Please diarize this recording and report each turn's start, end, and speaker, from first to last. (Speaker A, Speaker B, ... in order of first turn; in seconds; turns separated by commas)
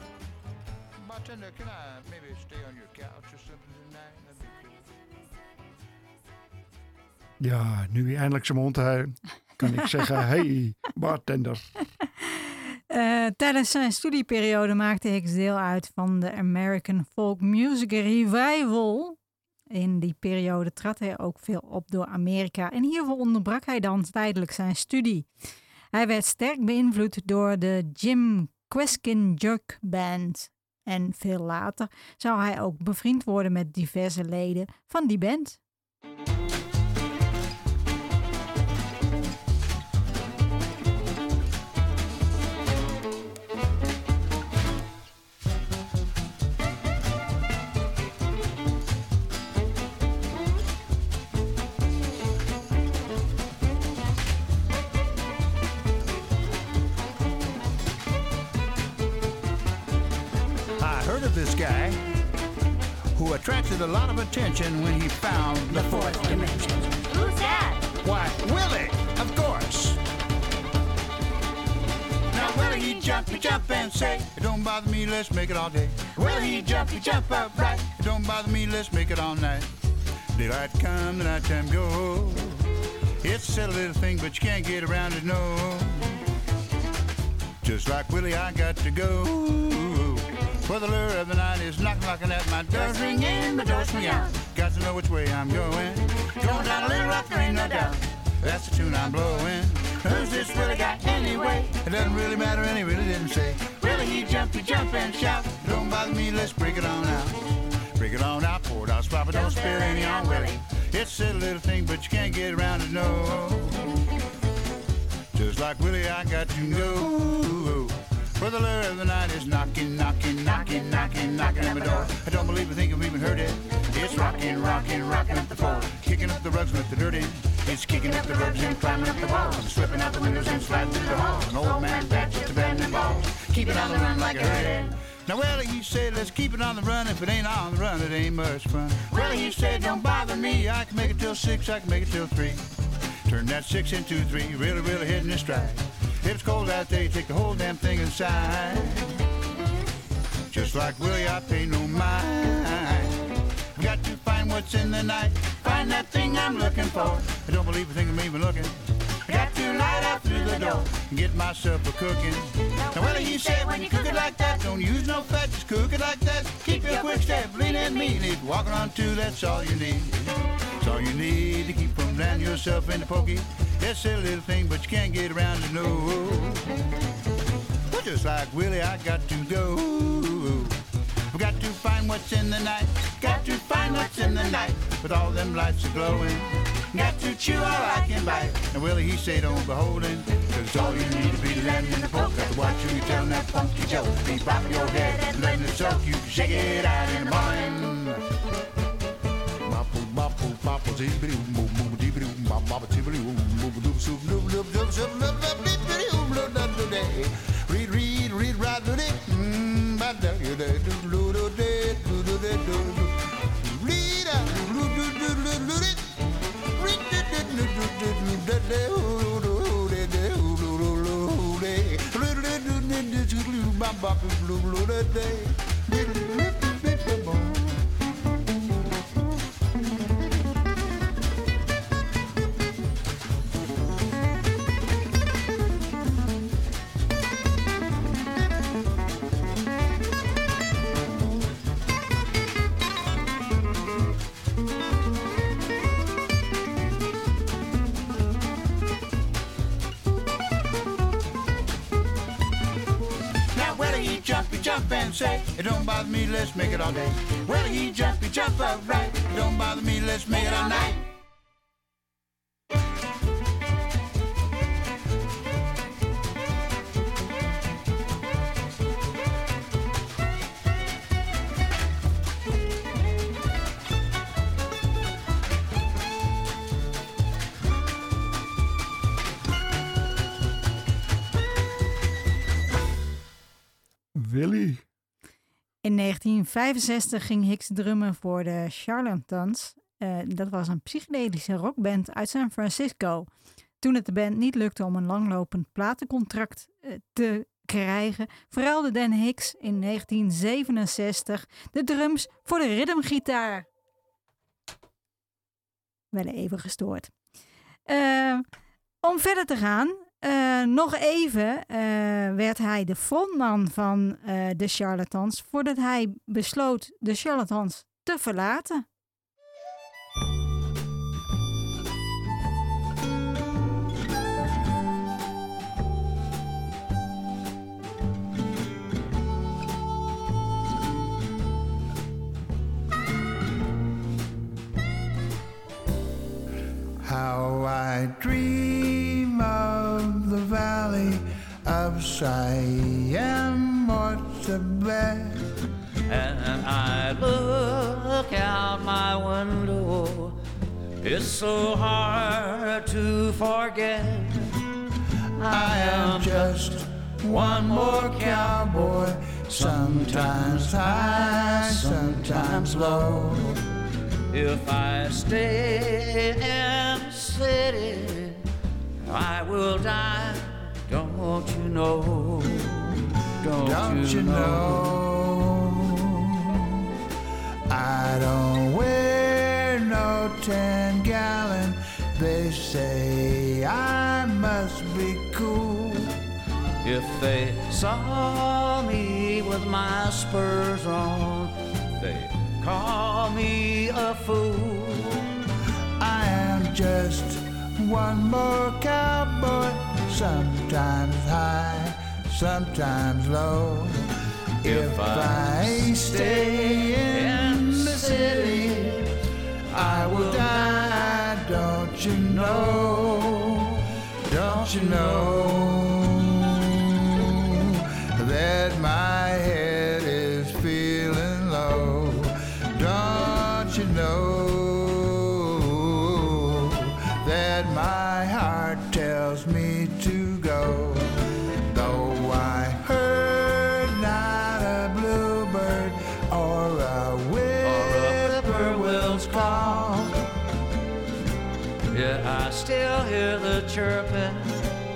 Speaker A: 1.0-4.8, Speaker B: 7.4-11.7, Speaker C: 12.9-19.2, Speaker C: 19.7-25.3, Speaker C: 25.9-35.6, Speaker A: 60.8-62.0, Speaker A: 63.1-67.0, Speaker D: 67.1-67.9, Speaker A: 67.9-70.0, Speaker A: 72.3-79.7, Speaker D: 73.0-73.5, Speaker A: 80.3-82.7, Speaker A: 83.2-86.2, Speaker A: 87.6-113.9, Speaker D: 93.0-94.2, Speaker A: 115.3-142.7, Speaker A: 143.2-149.2, Speaker A: 150.5-176.7, Speaker D: 163.1-164.4, Speaker A: 177.9-180.8, Speaker A: 181.3-198.2, Speaker A: 199.6-216.2, Speaker A: 216.8-227.8, Speaker A: 253.5-261.1, Speaker B: 284.1-284.8, Speaker C: 285.8-293.3, Speaker C: 293.8-303.7, Speaker C: 306.1-307.1, Speaker C: 307.9-308.4, Speaker C: 309.0-318.9, Speaker A: 337.0-345.5, Speaker E: 346.1-350.4, Speaker E: 351.0-354.6, Speaker E: 355.4-356.6, Speaker A: 355.4-363.6, Speaker E: 357.3-358.9, Speaker E: 359.5-363.4, Speaker E: 364.3-368.5, Speaker E: 369.0-375.0, Speaker A: 373.6-376.8, Speaker A: 377.7-386.2, Speaker E: 386.8-395.3, Speaker A: 396.0-408.9, Speaker E: 404.6-409.2, Speaker A: 409.7-440.2, Speaker E: 409.7-411.0, Speaker E: 412.3-412.9, Speaker E: 414.4-415.6, Speaker E: 437.6-440.1, Speaker E: 441.9-444.7